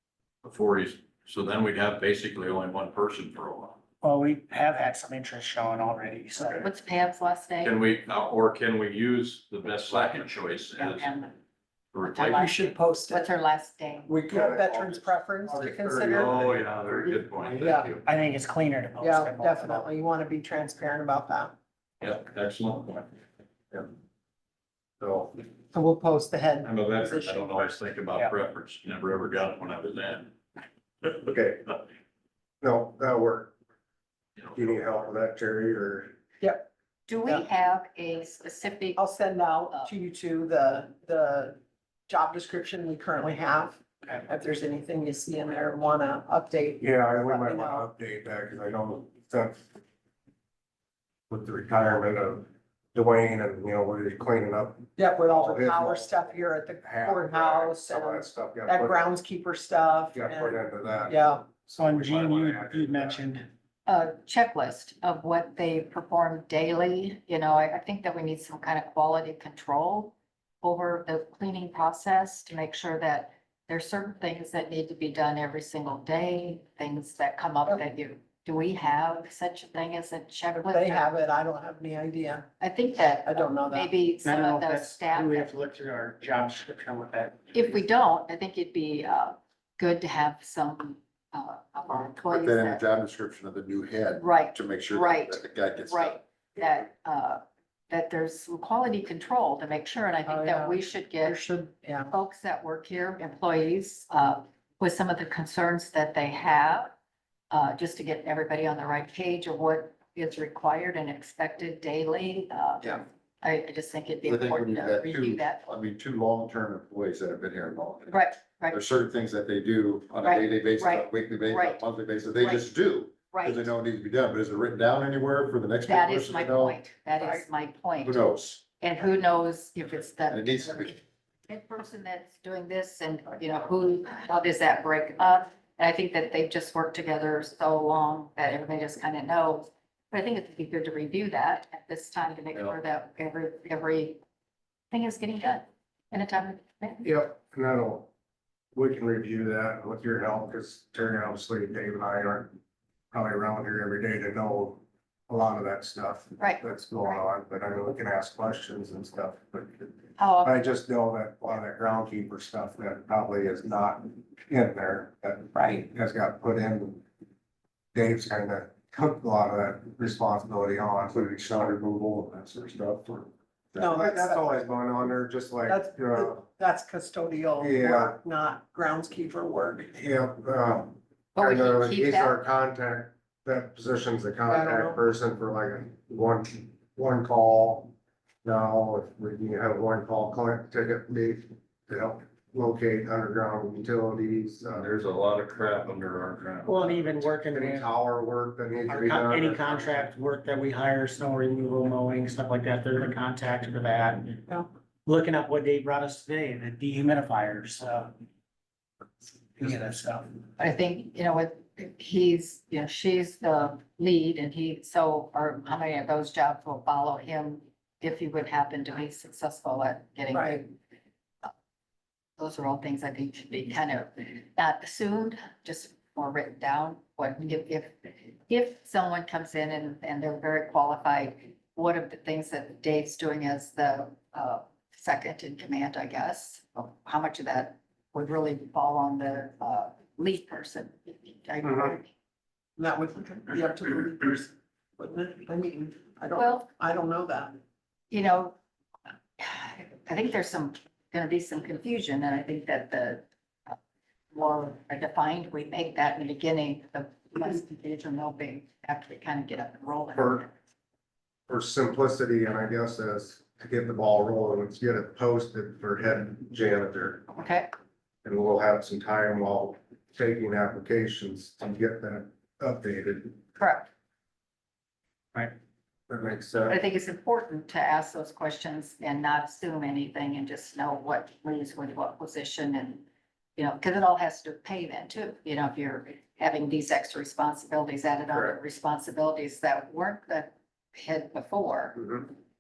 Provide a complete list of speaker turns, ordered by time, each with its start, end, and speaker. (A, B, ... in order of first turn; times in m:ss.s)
0:00.4-0:03.8 A
0:04.0-0:06.6 B
0:06.4-0:07.8 C
0:07.6-0:11.1 A
0:10.8-0:11.3 C
0:11.9-0:12.5 A
0:12.1-0:14.2 C
0:12.3-0:13.3 D
0:14.1-0:16.4 D
0:14.3-0:17.1 E
0:16.1-0:18.0 A
0:17.6-0:18.0 D
0:18.0-0:19.9 B
0:19.0-0:21.6 D
0:22.0-0:23.1 A
0:25.0-0:25.4 E
0:25.7-0:27.8 D
0:26.6-0:30.3 A
0:31.1-0:31.7 E
0:32.6-0:33.5 E
0:34.5-0:36.2 E
0:36.4-0:36.7 D
0:37.1-0:39.1 C
0:39.0-0:47.9 D
0:39.7-0:40.0 C
0:46.8-0:49.7 E
0:51.3-0:56.2 E
0:55.0-1:01.6 D
0:56.8-0:59.0 E
1:00.1-1:03.2 E
1:01.7-1:03.5 B
1:03.9-1:21.2 C
1:20.6-1:22.5 D
1:22.6-1:25.5 C
1:23.2-1:23.9 D
1:24.2-1:27.7 B
1:27.5-1:32.8 C
1:32.3-1:36.2 F
1:34.1-1:41.4 C
1:40.3-1:42.1 D
1:42.1-1:46.9 C
1:47.5-1:55.6 C
1:54.2-2:06.8 F
1:58.1-1:58.8 C
2:00.2-2:01.8 C
2:02.4-2:02.7 C
2:03.3-2:03.7 C
2:05.8-2:08.3 C
2:08.0-2:08.6 F
2:08.8-2:24.2 C
2:10.3-2:11.0 F
2:24.9-2:27.1 C
2:27.0-2:28.1 E
2:28.8-2:32.5 E
2:33.1-2:47.0 E
2:36.4-2:37.1 C
2:40.2-2:40.7 C
2:45.5-2:45.9 D
2:47.9-2:56.4 E
2:53.8-2:54.7 D
2:55.7-2:59.9 D
2:57.6-2:58.2 E
2:59.9-3:07.9 E
3:01.4-3:02.4 C
3:04.5-3:05.0 D
3:08.4-3:14.9 E
3:14.7-3:17.1 A
3:16.7-3:17.9 B
3:17.5-3:20.1 E
3:18.9-3:24.4 B
3:25.1-3:28.1 B
3:29.6-3:30.3 B
3:30.6-3:40.7 C
3:40.3-3:40.6 D
3:42.4-4:02.1 C
4:01.6-4:01.9 E
4:02.8-4:07.6 D
4:06.4-4:06.7 C
4:08.1-4:08.6 C
4:09.4-4:13.8 C
4:14.3-4:20.5 C
4:20.2-4:20.4 E
4:21.5-4:27.2 E
4:27.3-4:27.7 C
4:28.2-4:33.4 E
4:33.6-4:33.9 C
4:36.1-4:36.8 E
4:36.7-4:43.0 C
4:43.6-4:52.2 C
4:52.0-4:52.3 E